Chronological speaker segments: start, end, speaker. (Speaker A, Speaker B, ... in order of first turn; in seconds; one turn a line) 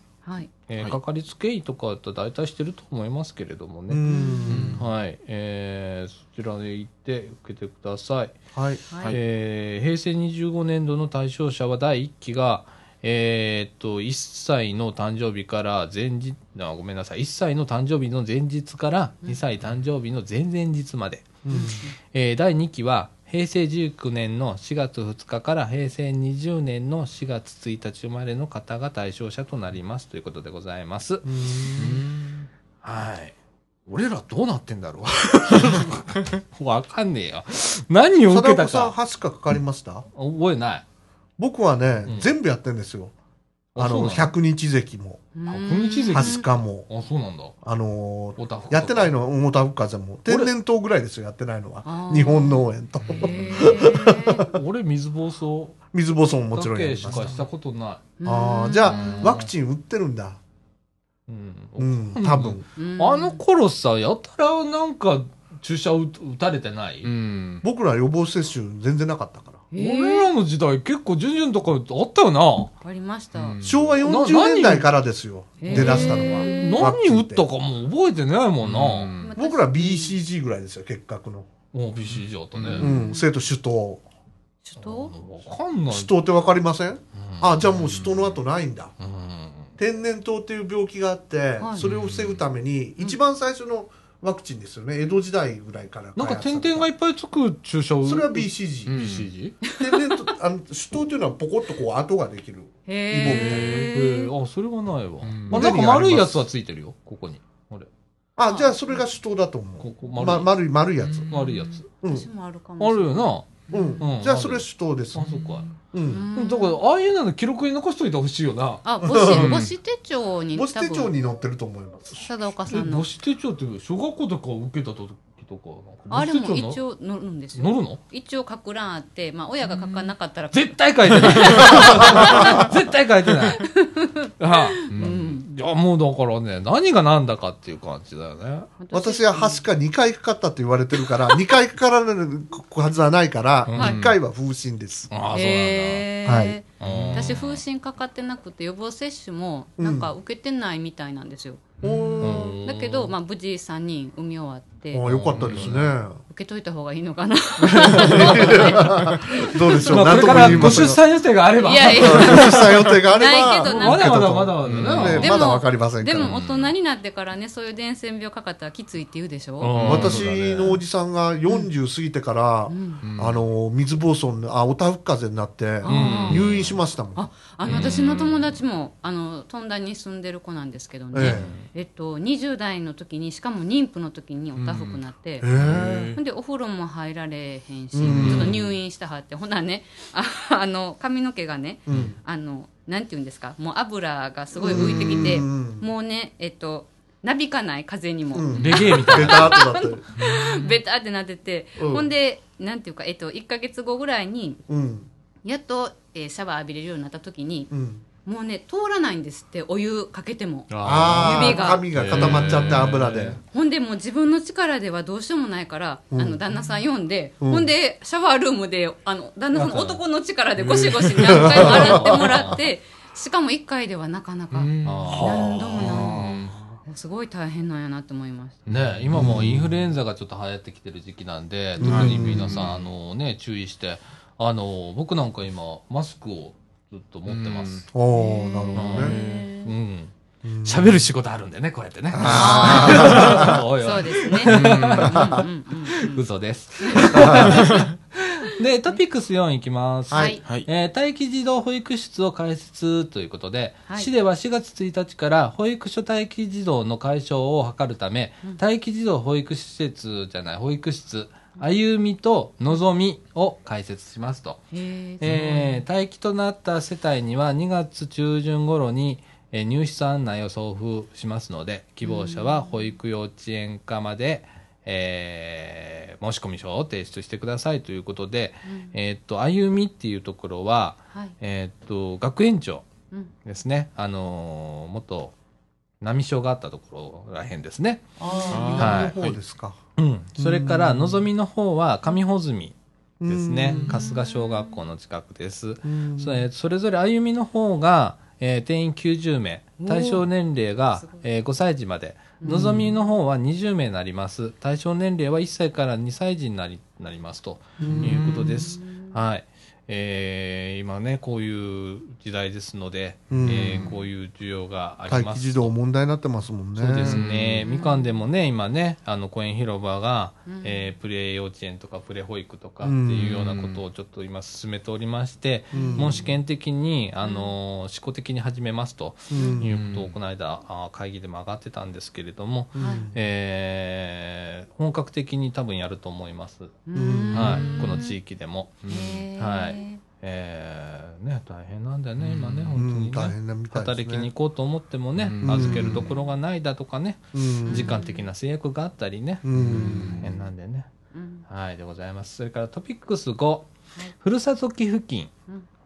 Speaker A: 0.2-0.5
Speaker B: 0.7-4.0
Speaker C: 3.9-4.8
Speaker A: 4.1-4.7
Speaker D: 4.5-4.8
Speaker B: 4.8-8.4
Speaker C: 8.5-8.8
Speaker A: 8.9-9.2
Speaker B: 9.1-21.4
Speaker C: 21.4-21.9
Speaker A: 21.5-22.0
Speaker B: 22.1-31.3
Speaker C: 31.2-32.0
Speaker D: 31.8-32.5
Speaker B: 32.8-33.4
Speaker B: 33.9-39.0
Speaker C: 38.2-40.1
Speaker B: 40.1-40.9
Speaker C: 41.4-43.1
Speaker B: 42.0-42.3
Speaker B: 43.8-44.3
Speaker C: 43.8-45.3
Speaker A: 45.4-46.4
Speaker B: 45.5-47.6
Speaker C: 46.1-46.9
Speaker C: 47.6-54.5
Speaker B: 48.4-49.1
Speaker B: 50.3-50.5
Speaker A: 51.9-54.5
Speaker B: 53.1-55.8
Speaker C: 55.9-57.4
Speaker B: 56.5-58.1
Speaker A: 58.2-59.2
Speaker C: 58.2-60.4
Speaker B: 58.9-59.5
Speaker B: 61.3-67.1
Speaker C: 61.8-62.6
Speaker A: 62.8-63.4
Speaker D: 67.0-67.6
Speaker C: 67.6-69.7
Speaker A: 69.7-70.3
Speaker B: 69.8-72.7
Speaker A: 72.8-73.6
Speaker D: 73.3-74.0
Speaker C: 73.6-77.5
Speaker B: 74.0-74.9
Speaker A: 75.6-76.8
Speaker B: 75.7-79.2
Speaker D: 78.6-79.3
Speaker A: 79.2-80.2
Speaker C: 79.4-81.5
Speaker B: 81.7-82.9
Speaker D: 82.1-82.9
Speaker A: 82.8-83.3
Speaker C: 82.8-84.0
Speaker A: 84.7-85.1
Speaker B: 84.8-86.1
Speaker C: 85.9-88.9
Speaker B: 87.2-87.6
Speaker D: 87.7-88.4
Speaker B: 89.0-89.7
Speaker C: 89.8-96.9
Speaker A: 91.6-91.8
Speaker D: 91.8-92.4
Speaker B: 96.2-99.6
Speaker C: 98.0-99.1
Speaker D: 98.9-99.3
Speaker A: 99.6-100.3
Speaker C: 99.8-103.9
Speaker A: 102.9-104.3
Speaker D: 103.2-103.9
Speaker B: 103.9-107.9
Speaker D: 105.2-105.7
Speaker C: 105.5-106.4
Speaker C: 108.4-111.3
Speaker A: 108.4-109.0
Speaker B: 109.8-110.6
Speaker D: 111.0-111.8
Speaker B: 111.3-111.8
Speaker C: 112.0-112.3
Speaker A: 112.0-114.0
Speaker B: 112.8-115.7
Speaker C: 113.7-116.3
Speaker D: 115.2-115.7
Speaker A: 116.0-116.8
Speaker B: 116.3-118.8
Speaker A: 118.8-121.1
Speaker C: 119.0-119.6
Speaker D: 119.3-119.7
Speaker C: 120.5-122.3
Speaker A: 122.1-123.1
Speaker B: 122.7-126.8
Speaker A: 126.1-132.8
Speaker B: 127.5-128.0
Speaker B: 130.5-133.6
Speaker C: 131.7-132.7
Speaker A: 133.6-135.4
Speaker B: 134.4-138.7
Speaker D: 134.9-135.2
Speaker A: 138.8-139.6
Speaker C: 138.9-145.1
Speaker B: 143.6-143.9
Speaker A: 143.8-144.1
Speaker D: 143.8-144.2
Speaker B: 145.1-146.1
Speaker A: 145.3-155.1
Speaker C: 146.2-146.6
Speaker B: 146.8-147.6
Speaker D: 146.8-147.4
Speaker C: 149.8-150.1
Speaker D: 151.8-152.2
Speaker C: 151.8-152.6
Speaker B: 152.2-153.1
Speaker C: 154.9-156.2
Speaker B: 155.1-155.9
Speaker D: 155.4-155.7
Speaker A: 156.2-160.1
Speaker C: 157.8-161.0
Speaker D: 157.9-158.4
Speaker B: 158.0-158.5
Speaker B: 159.9-162.8
Speaker D: 160.1-160.9
Speaker A: 161.6-164.4
Speaker C: 161.8-166.3
Speaker B: 163.6-165.4
Speaker D: 164.7-165.3
Speaker A: 165.2-169.7
Speaker D: 166.1-166.7
Speaker B: 169.6-170.3
Speaker D: 169.7-170.8
Speaker C: 169.8-177.2
Speaker A: 172.7-173.0
Speaker D: 173.0-173.4
Speaker A: 175.8-176.4
Speaker B: 175.9-176.4
Speaker D: 176.3-176.8
Speaker A: 177.1-204.6
Speaker B: 177.7-178.4
Speaker D: 177.7-177.9
Speaker C: 181.1-181.5
Speaker B: 181.2-181.7
Speaker D: 184.6-186.2
Speaker C: 185.4-186.1
Speaker C: 187.9-188.6
Speaker D: 188.1-188.7
Speaker C: 191.9-192.2
Speaker D: 191.9-192.1
Speaker C: 194.6-195.9
Speaker D: 195.0-195.3
Speaker C: 198.3-200.1
Speaker B: 198.6-199.6
Speaker D: 200.2-200.7
Speaker C: 201.8-202.1
Speaker C: 204.7-205.1
Speaker A: 205.4-207.7
Speaker C: 207.7-208.0
Speaker A: 208.2-211.9
Speaker B: 210.7-213.4
Speaker C: 210.8-213.4
Speaker D: 212.0-213.0
Speaker A: 213.5-228.7
Speaker C: 216.1-216.4
Speaker C: 217.4-217.7
Speaker B: 219.5-220.0
Speaker D: 220.6-222.5
Speaker C: 221.3-222.1
Speaker B: 221.5-222.6
Speaker D: 224.5-226.6
Speaker B: 224.8-226.3
Speaker C: 225.1-226.6
Speaker D: 228.7-229.6
Speaker B: 228.7-237.8
Speaker C: 229.1-229.7
Speaker C: 231.8-232.7
Speaker D: 231.8-232.7
Speaker D: 237.3-237.9
Speaker C: 237.9-239.2
Speaker A: 238.1-239.7
Speaker B: 238.7-264.6
Speaker D: 239.0-239.5
Speaker C: 240.4-241.0
Speaker C: 242.1-243.6
Speaker A: 242.2-246.2
Speaker D: 242.2-243.0
Speaker D: 244.4-245.4
Speaker A: 246.8-247.8
Speaker C: 247.2-247.5
Speaker D: 247.4-247.8
Speaker C: 250.1-250.4
Speaker A: 250.1-250.4
Speaker A: 264.7-265.8
Speaker B: 265.2-282.9
Speaker A: 272.0-272.9
Speaker A: 278.7-278.9
Speaker B: 283.4-285.4
Speaker B: 286.0-288.1
Speaker C: 288.2-289.8
Speaker A: 288.2-289.0
Speaker D: 288.5-289.4
Speaker B: 288.7-289.2
Speaker B: 290.0-315.7
Speaker C: 290.4-291.2
Speaker C: 293.2-294.0
Speaker A: 293.9-294.8
Speaker C: 295.8-296.4
Speaker A: 299.9-300.2
Speaker A: 301.0-301.2
Speaker A: 302.4-302.9
Speaker C: 302.4-302.9
Speaker C: 307.8-308.4
Speaker D: 307.9-308.3
Speaker A: 308.1-309.2
Speaker C: 313.3-313.9
Speaker D: 313.3-313.9
Speaker C: 315.1-317.2
Speaker B: 316.8-336.8
Speaker D: 317.0-317.6
Speaker A: 317.6-318.1
Speaker A: 320.4-320.9
Speaker C: 322.8-323.4
Speaker D: 323.2-323.8
Speaker A: 325.7-326.2
Speaker C: 325.7-326.3
Speaker A: 327.2-327.5
Speaker C: 329.3-329.8
Speaker A: 329.4-329.6
Speaker D: 329.6-330.1
Speaker C: 332.7-333.2
Speaker A: 332.8-333.1
Speaker A: 336.9-338.1
Speaker C: 336.9-337.6
Speaker D: 337.3-338.1
Speaker B: 337.3-350.9
Speaker D: 338.8-339.2
Speaker A: 338.9-340.0
Speaker D: 342.2-342.8
Speaker C: 342.7-344.3
Speaker D: 345.2-346.1
Speaker C: 345.4-346.1
Speaker C: 347.3-347.9
Speaker A: 347.7-348.3
Speaker C: 349.4-350.3
Speaker D: 349.5-350.4
Speaker A: 351.1-351.4
Speaker B: 351.5-353.7
Speaker B: 354.2-355.3